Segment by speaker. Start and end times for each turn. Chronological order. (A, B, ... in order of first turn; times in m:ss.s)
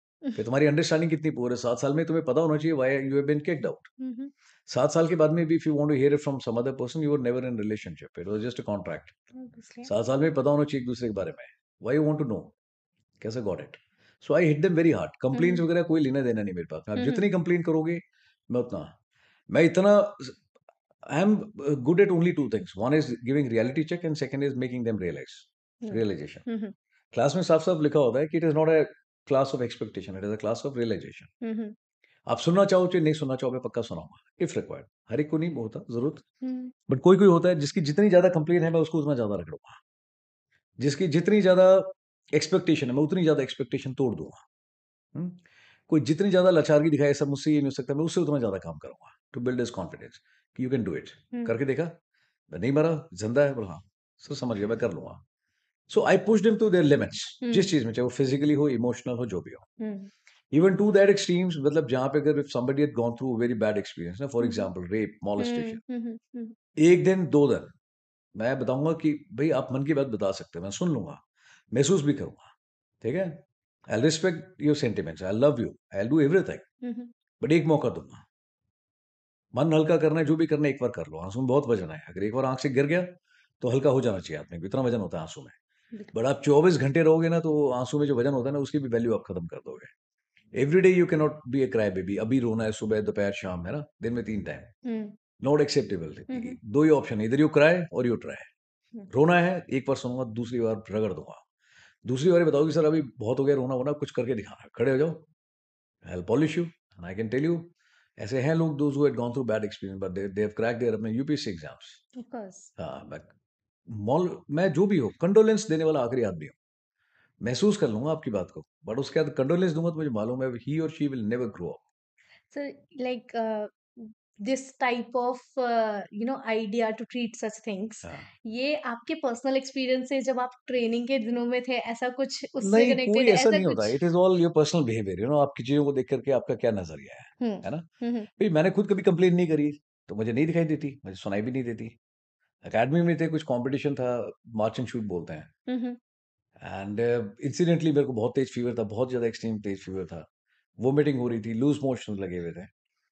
0:00.3-0:03.9 A
0:04.0-0:04.3 B
0:04.7-0:09.2 A
0:09.3-0:09.9 B
0:09.8-0:12.5 A
0:13.2-0:18.9 A
0:15.3-0:15.6 B
0:17.0-0:17.3 B
0:19.5-0:20.4 A
0:21.0-0:26.4 A
0:25.8-0:26.7 B
0:27.1-0:31.3 A
0:31.4-0:31.8 B
0:32.3-0:36.2 A
0:36.4-0:36.7 B
0:36.9-0:39.8 A
0:40.8-0:44.4 A
0:45.1-0:51.9 A
0:52.5-0:55.2 A
0:55.9-0:59.6 A
0:57.4-0:57.7 B
0:59.8-1:00.1 B
1:00.5-1:05.8 A
1:04.4-1:04.7 B
1:05.4-1:06.6 B
1:06.8-1:07.7 A
1:08.3-1:16.6 A
1:16.8-1:17.1 B
1:17.4-1:18.2 A
1:19.5-1:25.5 A
1:26.1-1:29.9 A
1:30.5-1:34.7 A
1:34.8-1:35.2 B
1:35.4-1:38.5 A
1:36.3-1:36.6 B
1:39.1-1:41.4 A
1:42.0-1:45.2 A
1:46.0-1:52.0 A
1:52.1-1:52.7 B
1:52.8-1:53.3 A
1:53.9-1:56.6 A
1:57.4-2:01.8 A
2:02.5-2:14.0 B
2:08.0-2:08.3 A
2:12.6-2:22.0 A
2:17.4-2:18.3 B
2:22.6-2:25.5 A
2:25.7-2:26.0 B
2:26.6-2:30.2 A
2:30.8-2:32.7 A